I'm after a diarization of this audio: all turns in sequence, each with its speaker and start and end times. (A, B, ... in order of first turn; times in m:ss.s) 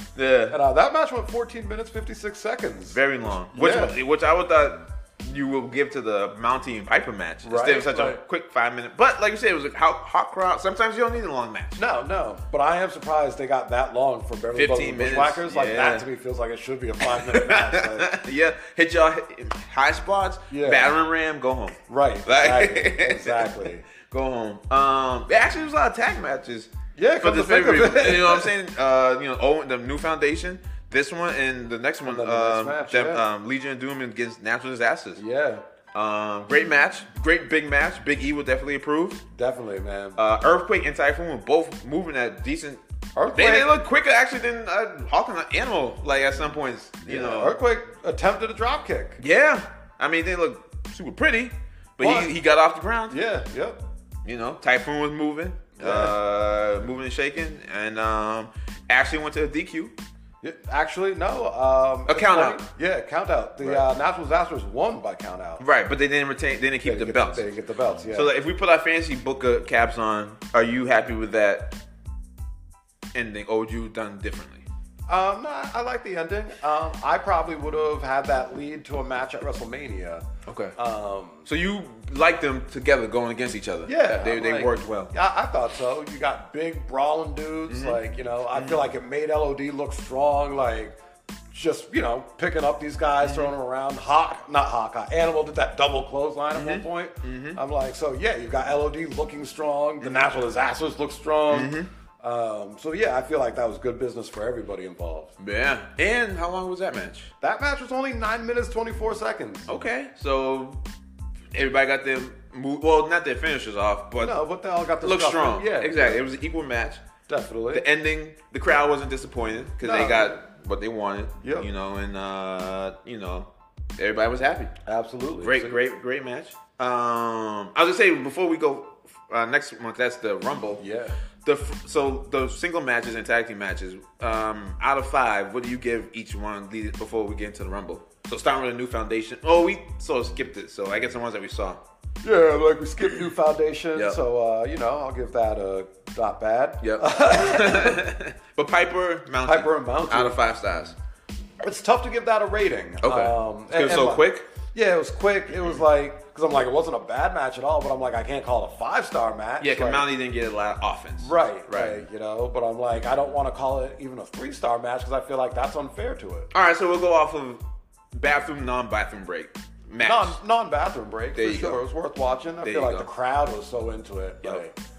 0:00.2-0:00.6 A
0:00.5-0:04.0 B
0:02.9-0:11.8 A
0:07.4-0:08.2 B
0:11.8-0:18.1 B
0:14.5-0:16.0 A
0:17.0-0:35.2 A
0:20.5-0:20.9 B
0:21.9-0:23.8 B
0:26.9-0:28.5 B
0:32.0-0:33.2 B
0:35.2-0:35.6 B
0:35.9-0:39.2 A
0:39.3-0:40.2 B
0:40.2-0:42.8 A
0:43.2-0:43.7 B
0:43.3-0:47.6 A
0:47.0-0:49.2 B
0:49.2-0:53.2 A
0:52.0-0:52.3 B
0:53.1-0:53.8 B
0:54.2-0:59.9 A
0:55.8-0:56.2 B
1:00.4-1:05.6 B
1:02.1-1:02.6 A
1:03.6-1:03.9 A
1:05.6-1:07.4 A
1:06.8-1:08.3 B
1:08.1-1:11.8 A
1:13.1-1:14.6 A
1:15.1-1:20.2 B
1:20.4-1:20.7 A
1:20.7-1:21.5 B
1:21.4-1:25.1 A
1:23.8-1:31.0 B
1:27.7-1:28.0 A
1:28.5-1:28.9 A
1:31.5-1:45.3 B
1:33.2-1:33.5 A
1:36.5-1:37.6 A
1:40.0-1:40.3 A
1:41.5-1:41.9 A
1:45.4-1:47.3 A
1:47.4-1:49.7 B
1:49.7-1:50.8 A
1:51.5-1:54.4 A
1:54.2-1:56.2 B
1:55.0-1:57.0 A
1:57.3-1:57.8 B
1:57.7-2:04.7 A
1:59.8-2:00.4 B
2:01.4-2:01.7 B
2:04.8-2:05.8 B
2:05.4-2:10.8 A
2:10.8-2:11.2 B
2:11.4-2:21.8 A
2:22.2-2:28.0 B
2:26.8-2:31.0 A
2:29.4-2:30.4 B
2:31.6-2:40.1 B
2:33.0-2:34.5 A
2:39.6-2:42.0 A
2:41.2-2:46.5 B
2:46.5-2:47.6 A
2:48.1-2:50.4 A
2:50.0-2:54.7 B
2:51.3-2:51.8 A
2:52.6-2:53.1 A